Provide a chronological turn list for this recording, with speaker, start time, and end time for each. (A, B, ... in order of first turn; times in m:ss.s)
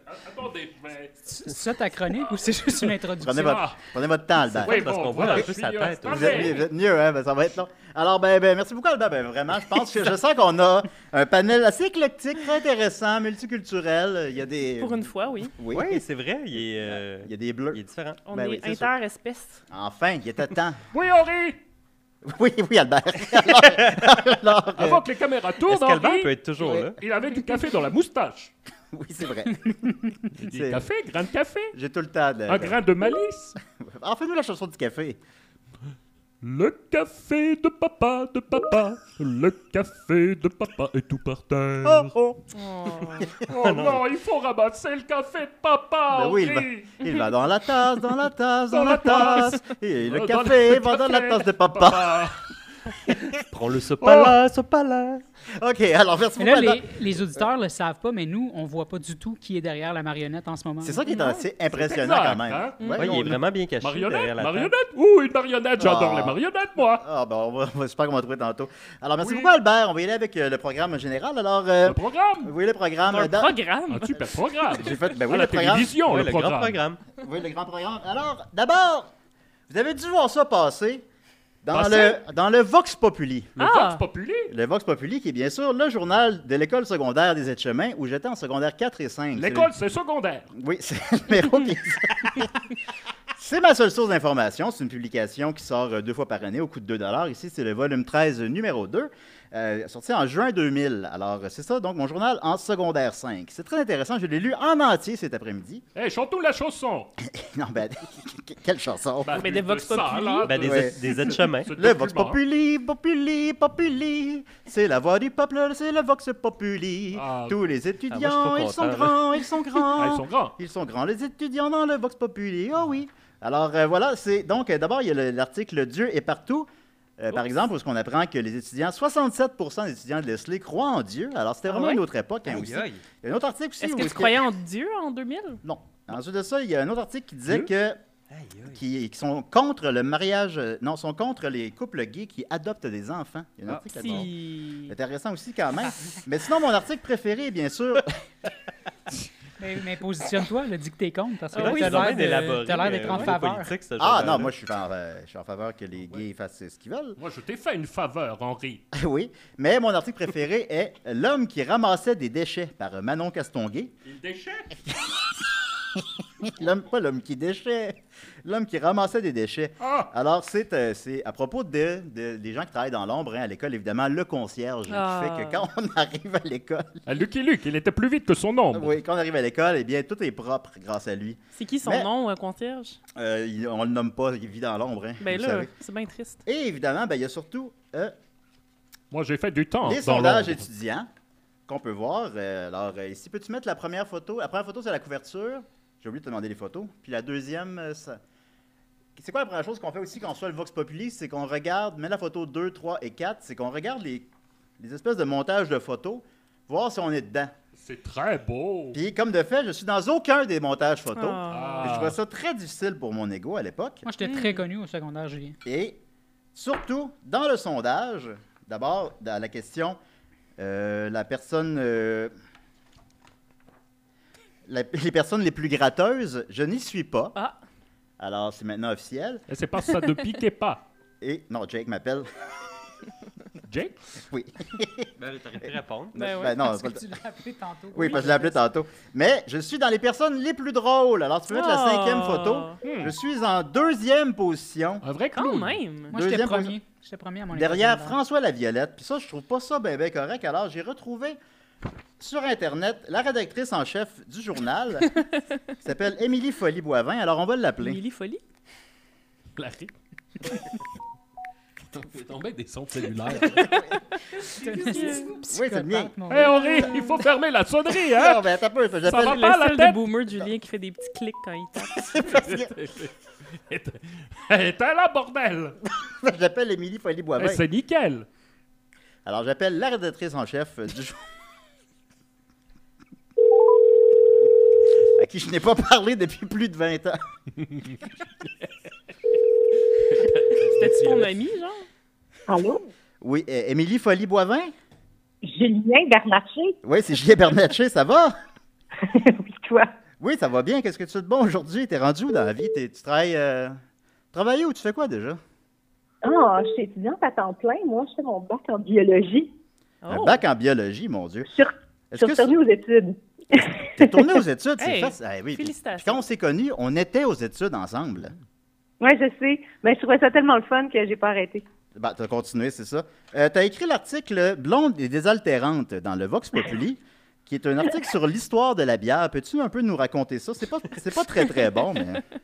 0:00.1-0:01.2 A
0:01.3-0:03.5 B
0:03.2-0:05.5 C
0:03.4-0:03.8 A
0:04.6-0:06.6 A
0:04.6-0:06.6 D
0:06.0-0:16.0 C
0:14.8-0:15.5 E
0:15.7-0:18.2 D
0:16.6-0:17.8 C
0:18.2-0:19.6 E
0:18.3-0:18.9 C
0:19.7-0:20.8 C
0:20.9-0:21.6 A
0:22.2-0:25.0 C
0:24.8-0:28.5 A
0:25.7-0:27.0 D
0:28.9-0:30.8 C
0:30.4-0:31.7 A
0:31.7-0:32.8 C
0:32.5-0:33.6 A
0:33.7-0:35.2 C
0:36.4-0:42.1 A
0:41.8-0:42.4 C
0:42.5-0:43.3 E
0:43.3-0:47.0 A
0:43.5-0:44.0 D
0:46.1-0:52.3 C
0:48.7-0:52.4 A
0:53.5-0:55.2 D
0:55.5-0:57.2 C
0:56.4-1:01.0 B
1:00.8-1:03.4 C
1:01.0-1:01.4 E
1:01.8-1:03.3 A
1:03.0-1:04.7 D
1:03.8-1:07.0 A
1:05.8-1:06.4 C
1:06.9-1:13.5 C
1:09.2-1:09.5 A
1:11.8-1:12.5 A
1:13.1-1:14.2 E
1:13.9-1:16.8 A
1:14.7-1:15.9 C
1:16.0-1:17.0 D
1:17.2-1:19.1 C
1:19.7-1:21.0 C
1:21.6-1:23.5 C
1:21.7-1:22.2 A
1:23.6-1:24.0 E
1:23.6-1:24.5 A
1:24.5-1:29.7 C
1:29.3-1:30.5 A
1:30.5-1:32.5 C
1:33.4-1:45.8 C
1:45.9-1:47.1 A
1:47.2-1:49.4 C
1:49.2-1:52.4 A
1:49.3-1:50.5 E
1:50.4-1:51.7 D
1:50.6-2:14.4 C
1:57.1-1:57.6 A
1:58.1-1:59.2 D
1:59.9-2:00.5 A
2:11.7-2:12.0 E
2:12.4-2:13.0 D
2:13.8-2:15.6 E
2:15.6-2:18.0 C
2:18.3-2:18.8 D
2:18.7-2:24.3 C
2:23.7-2:24.2 D
2:24.0-2:24.9 E
2:24.9-2:28.2 C
2:29.6-2:33.7 B
2:31.5-2:32.1 E
2:31.6-2:34.5 D
2:34.0-2:37.2 C
2:37.2-2:38.8 A
2:38.9-2:43.9 C
2:44.0-2:44.7 A
2:46.0-2:57.1 C
2:49.8-2:50.1 A
2:54.9-2:55.6 E
2:57.0-2:58.9 A
2:58.7-3:02.1 C
3:01.5-3:03.0 E
3:03.1-3:05.7 C
3:05.2-3:06.4 E
3:06.4-3:08.1 C
3:09.1-3:10.6 A
3:09.8-3:11.1 C
3:11.7-3:18.2 C
3:19.2-3:24.3 C
3:24.8-3:27.5 C
3:27.8-3:29.0 A
3:28.9-3:34.0 C
3:31.1-3:32.0 E
3:31.5-3:32.2 A
3:34.0-3:35.6 B
3:34.2-3:34.6 E
3:35.6-3:36.0 C
3:36.5-3:40.0 C
3:40.6-3:42.3 C
3:44.6-3:47.4 C
3:48.2-3:49.4 C
3:49.5-3:50.8 A
3:51.2-3:52.3 C
3:53.7-3:53.9 A
3:54.3-3:55.1 C
3:55.2-3:56.1 D
3:55.6-3:57.1 C
3:56.1-3:56.6 E
3:56.5-3:58.6 B
3:57.9-4:05.0 C
4:01.5-4:02.8 E
4:02.8-4:03.1 A
4:05.0-4:05.8 A
4:05.3-4:06.1 E
4:06.1-4:08.2 B
4:06.1-4:06.8 C
4:07.5-4:11.4 C
4:12.2-4:15.1 C
4:15.8-4:18.0 C
4:17.8-4:18.4 E
4:19.6-4:19.9 A
4:21.9-4:23.9 A
4:24.6-4:27.2 B
4:24.6-4:25.3 E
4:25.5-4:26.2 C
4:26.3-4:28.4 A
4:28.1-4:29.4 C
4:29.0-4:30.0 A
4:29.1-4:32.0 E
4:32.0-4:32.7 C
4:32.3-4:33.1 A
4:33.7-4:35.8 A
4:36.0-4:37.6 C
4:37.4-4:38.3 A
4:39.2-4:41.2 C
4:45.2-4:47.2 C
4:50.6-4:51.8 E
4:52.5-4:52.9 F
4:53.2-4:54.7 C
4:55.4-4:56.8 F
4:56.8-4:58.3 C
4:59.0-4:59.9 F
5:00.2-5:03.8 C
5:04.3-5:05.4 C
5:06.2-5:09.5 F
5:10.0-5:10.4 E
5:10.1-5:11.5 C
5:11.5-5:14.3 F
5:12.1-5:12.5 C
5:14.0-5:18.3 C
5:14.8-5:16.2 E
5:19.0-5:21.6 F
5:21.9-5:32.2 C